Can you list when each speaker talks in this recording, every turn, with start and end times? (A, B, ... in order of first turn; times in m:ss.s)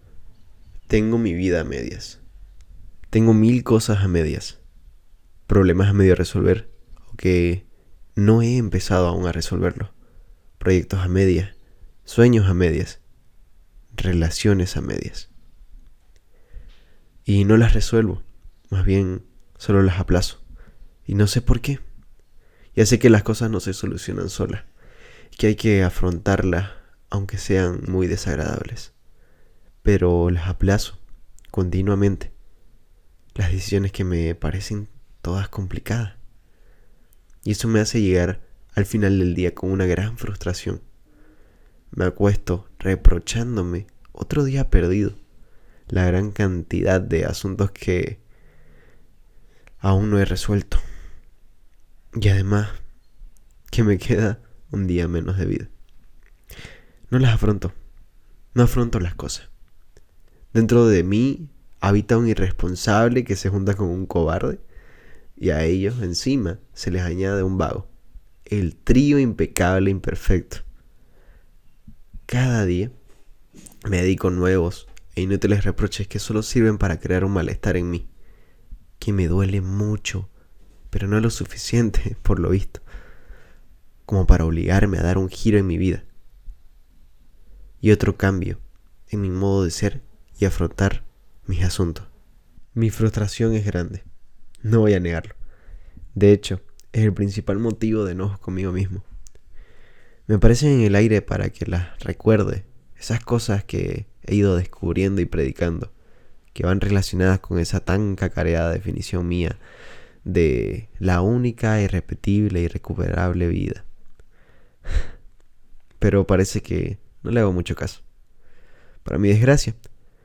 0:00.9-0:02.2 A
0:03.1-0:04.6 A
0:05.5-0:07.6 A
0:08.2-0:09.9 A
0:10.6-0:11.5 A
0:12.0-0:13.0 A
0:13.9-0:15.3 A
0:17.2-0:20.4 A
0:21.0-0:21.8 A
0:22.7-0:24.6 A
0:25.3-0:28.9 A
0:29.8-0:31.0 A
0:31.5-0:32.3 A
0:33.3-0:36.2 A
0:37.4-0:40.8 A
0:41.9-0:45.2 A
0:45.9-0:48.2 A
0:49.8-0:50.8 A
0:52.1-0:52.8 A
0:53.7-0:55.7 A
0:57.1-0:57.7 A
0:58.5-0:59.5 A
1:00.5-1:04.6 A
1:05.4-1:07.9 A
1:08.5-1:10.6 A
1:12.3-1:12.9 A
1:13.8-1:18.1 A
1:19.0-1:20.3 A
1:20.9-1:22.8 A
1:24.0-1:26.0 A
1:27.8-1:32.1 A
1:32.7-1:34.0 A
1:34.6-1:35.4 A
1:36.1-1:39.0 A
1:40.3-1:45.9 A
1:46.5-1:49.6 A
1:50.2-1:53.8 A
1:56.0-1:58.0 A
1:59.0-1:59.8 A